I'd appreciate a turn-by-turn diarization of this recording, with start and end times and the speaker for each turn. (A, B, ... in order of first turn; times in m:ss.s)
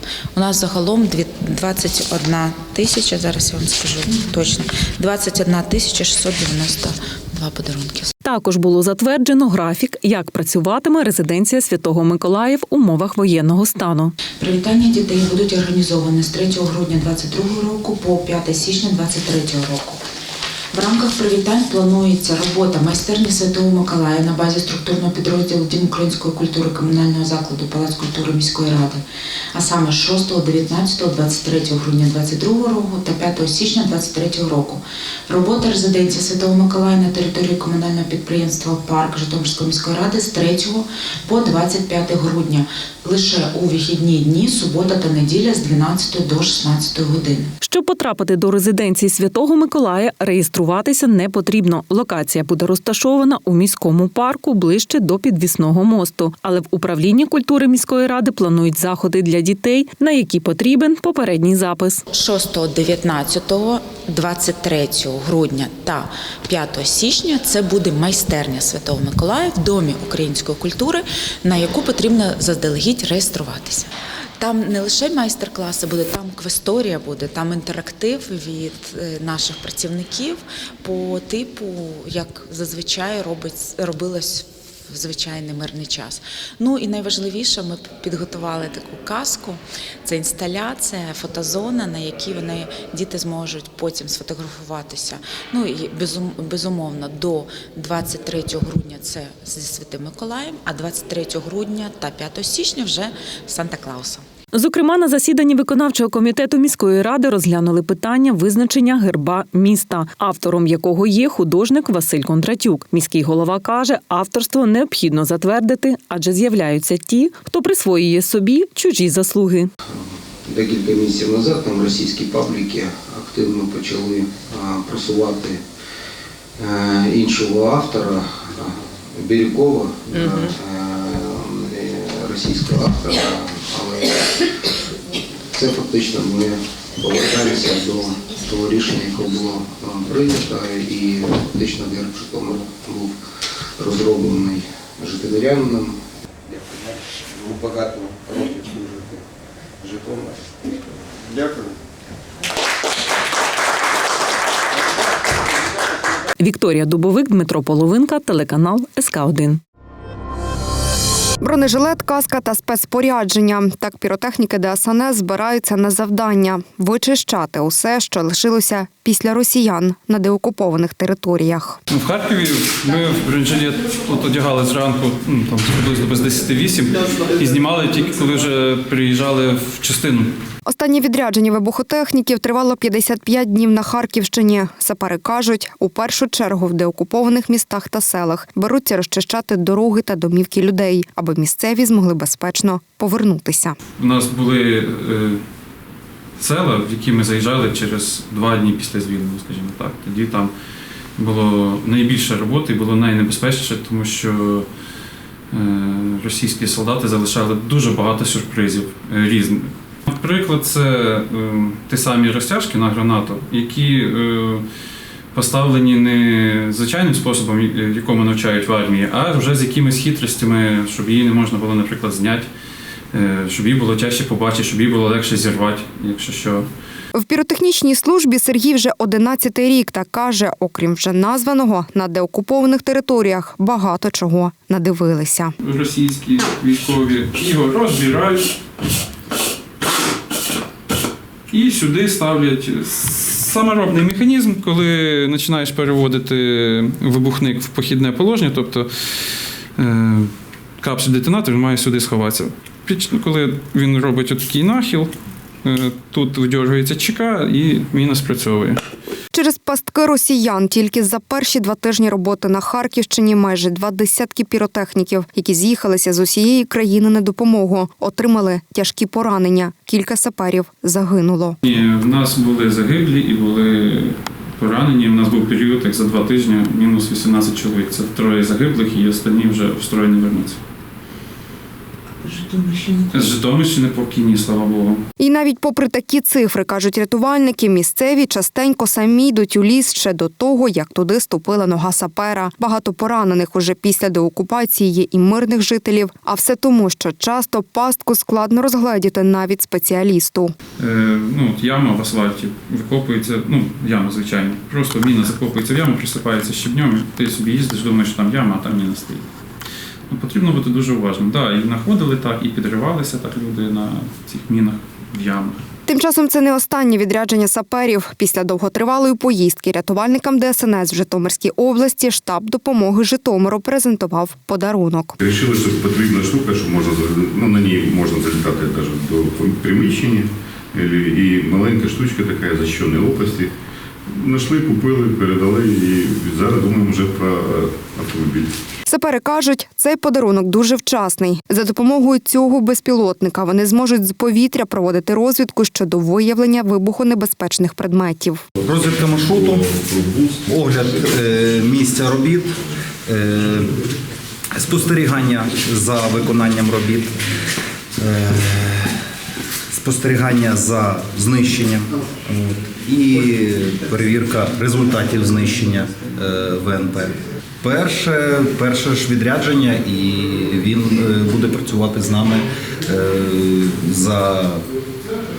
0:00.3-0:08.1 A
0:08.2-0:14.1 B
0:14.4-0:20.0 A
0:20.7-0:29.0 A
0:29.5-0:47.5 A
0:47.6-1:02.0 B
1:02.1-1:44.2 A
1:44.5-1:59.7 B
1:59.9-2:05.6 C
2:06.6-2:14.4 C
2:15.5-2:23.1 C
2:23.8-2:26.0 C
2:26.5-2:29.2 C
2:29.8-2:30.4 C
2:36.4-2:39.6 B
2:41.5-2:51.7 D
2:51.9-3:00.3 E
3:00.7-3:13.7 D
3:14.0-3:15.4 E
3:16.4-3:20.5 E
3:21.2-3:24.6 E
3:25.5-3:34.6 E
3:35.3-3:42.5 E
3:43.1-3:46.7 E
3:47.2-3:55.5 D
3:55.6-3:58.5 E
4:01.5-4:08.9 E
4:09.8-4:15.1 E
4:15.6-4:18.8 E
4:19.4-4:31.5 D
4:31.6-4:40.6 E
4:43.1-4:45.0 E
4:45.2-5:00.5 D
5:00.8-5:09.2 E
5:10.1-5:15.6 E
5:15.9-5:25.1 D
5:25.2-5:33.5 F
5:34.1-5:38.5 F
5:38.9-5:48.3 D
5:48.6-5:49.8 G
5:49.5-5:50.4 F
5:50.4-5:53.7 G
5:54.5-5:57.2 G
5:58.0-5:59.0 G
5:59.7-6:14.6 G